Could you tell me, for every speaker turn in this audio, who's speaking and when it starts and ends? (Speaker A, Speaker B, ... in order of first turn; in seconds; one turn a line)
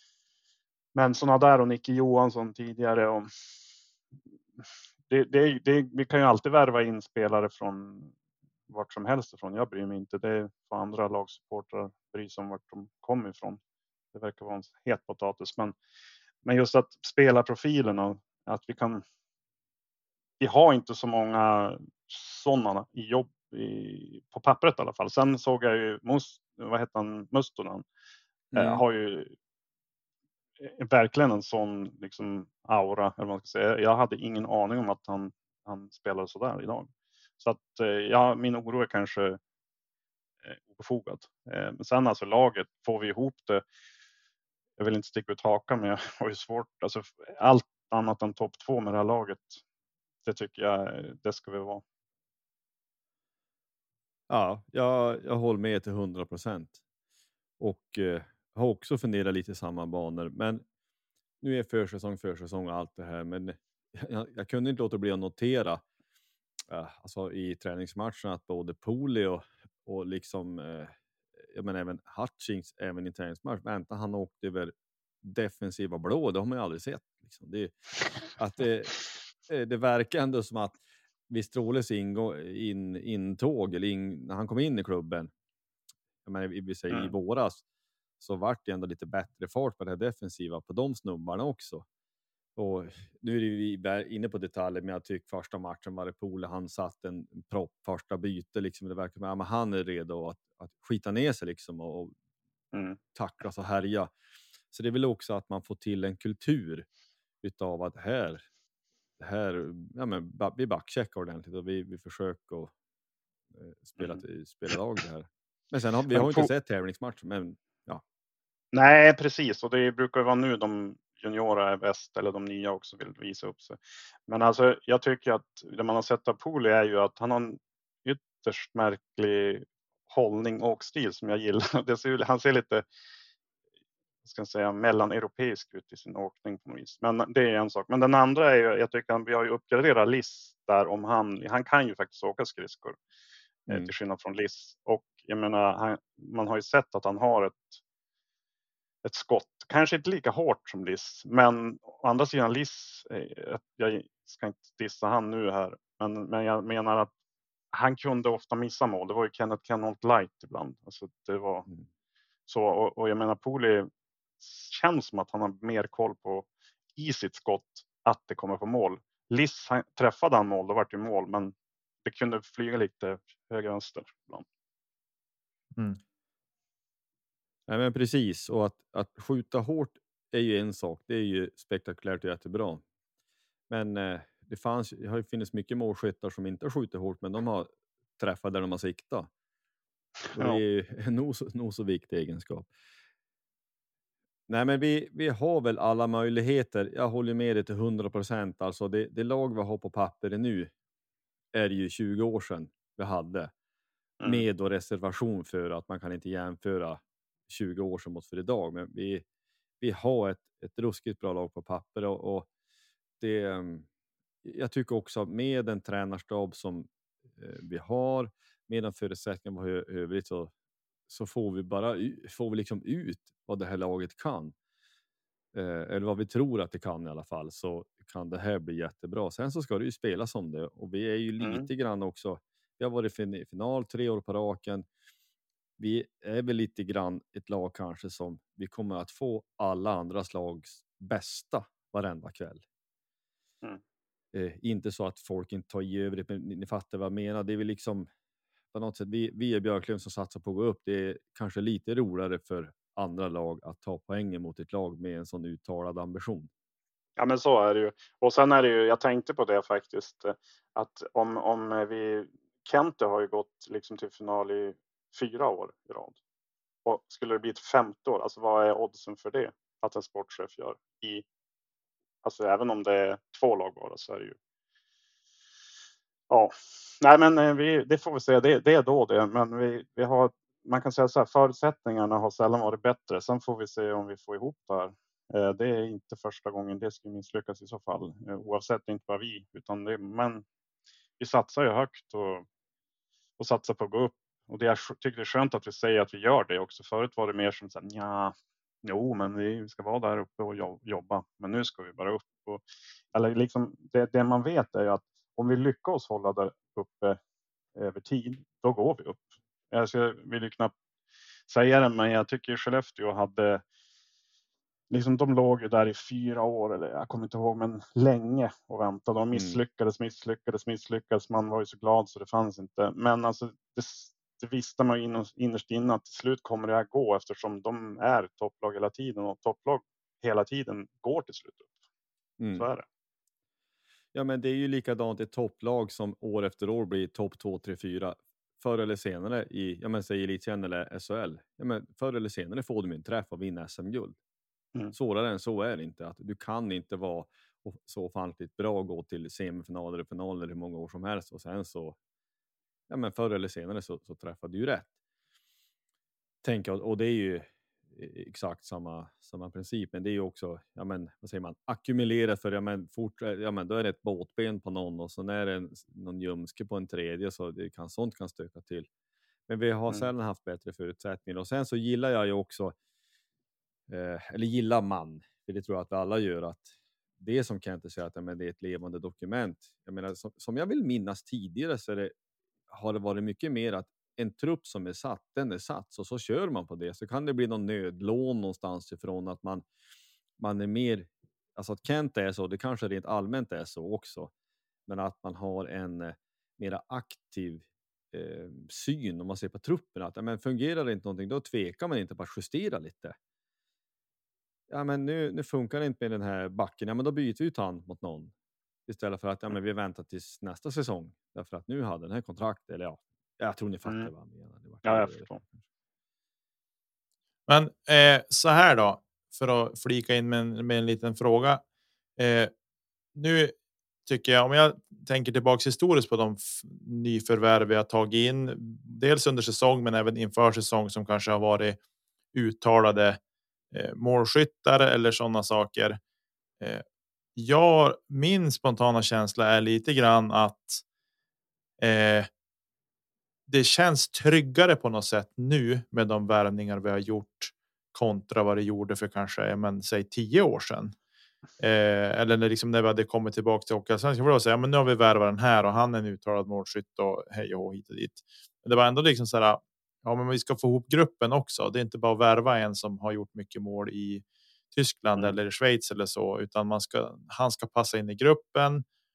Speaker A: 0.9-3.3
Speaker A: 5.1-8.1
Speaker A: 8.7-13.6
Speaker A: 14.1-15.8
Speaker A: 16.4-19.0
Speaker A: 20.4-27.9
Speaker B: 28.5-28.8
Speaker A: 28.6-29.3
Speaker A: 30.6-36.9
Speaker A: 37.4-39.4
Speaker A: 40.5-43.6
Speaker A: 44.8-49.6
Speaker A: 50.2-51.8
Speaker B: 54.3-56.8
Speaker B: 57.6-60.6
Speaker B: 61.4-65.8
Speaker B: 66.7-71.0
Speaker B: 71.5-77.7
Speaker B: 78.4-78.9
Speaker B: 79.5-80.8
Speaker B: 81.3-85.3
Speaker B: 86.2-87.6
Speaker B: 88.2-91.8
Speaker B: 92.6-102.1
Speaker A: 102.7-103.0
Speaker B: 103.2-104.1
Speaker B: 104.7-106.9
Speaker B: 107.4-108.5
Speaker B: 109.2-112.7
Speaker B: 113.5-118.0
Speaker A: 116.1-116.5
Speaker A: 118.7-132.8
Speaker A: 134.2-143.0
Speaker A: 143.7-147.8
Speaker A: 149.0-157.1
Speaker A: 157.7-161.7
Speaker A: 162.5-163.9
Speaker A: 164.4-171.5
Speaker A: 172.1-174.4
Speaker B: 177.7-182.8
Speaker B: 183.7-189.3
Speaker A: 190.3-190.6
Speaker B: 190.3-192.7
Speaker B: 194.5-200.7
Speaker B: 201.5-203.5
Speaker B: 204.2-209.2
Speaker B: 209.8-212.5
Speaker B: 213.2-213.9
Speaker B: 214.4-220.5
Speaker B: 221.1-224.5
Speaker B: 225.5-234.9
Speaker A: 231.4-231.7
Speaker B: 235.8-242.6
Speaker B: 244.3-248.1
Speaker B: 248.7-256.5
Speaker A: 257.2-266.1
Speaker A: 266.9-271.2
Speaker A: 272.2-274.4
Speaker A: 276.3-290.4
Speaker A: 291.2-292.4
Speaker A: 293.4-307.2
Speaker A: 307.8-310.7
Speaker A: 311.5-313.6
Speaker A: 314.9-331.7
Speaker B: 319.3-319.6
Speaker B: 332.4-332.7
Speaker A: 332.6-332.9
Speaker B: 334.1-344.2
Speaker B: 344.9-352.0
Speaker B: 352.9-354.9
Speaker B: 356.4-368.9
Speaker B: 369.5-372.8
Speaker B: 373.9-376.7
Speaker B: 377.2-382.1
Speaker B: 382.7-389.6
Speaker B: 390.4-394.3
Speaker B: 394.9-403.2
Speaker B: 404.7-408.3
Speaker B: 408.9-415.6
Speaker A: 414.9-415.4
Speaker C: 417.5-421.6
Speaker C: 422.2-422.5
Speaker C: 423.1-423.5
Speaker C: 424.1-431.8
Speaker C: 432.3-433.2
Speaker C: 433.7-436.0
Speaker C: 437.4-440.8
Speaker C: 441.8-442.3
Speaker C: 443.5-451.0
Speaker C: 451.6-468.8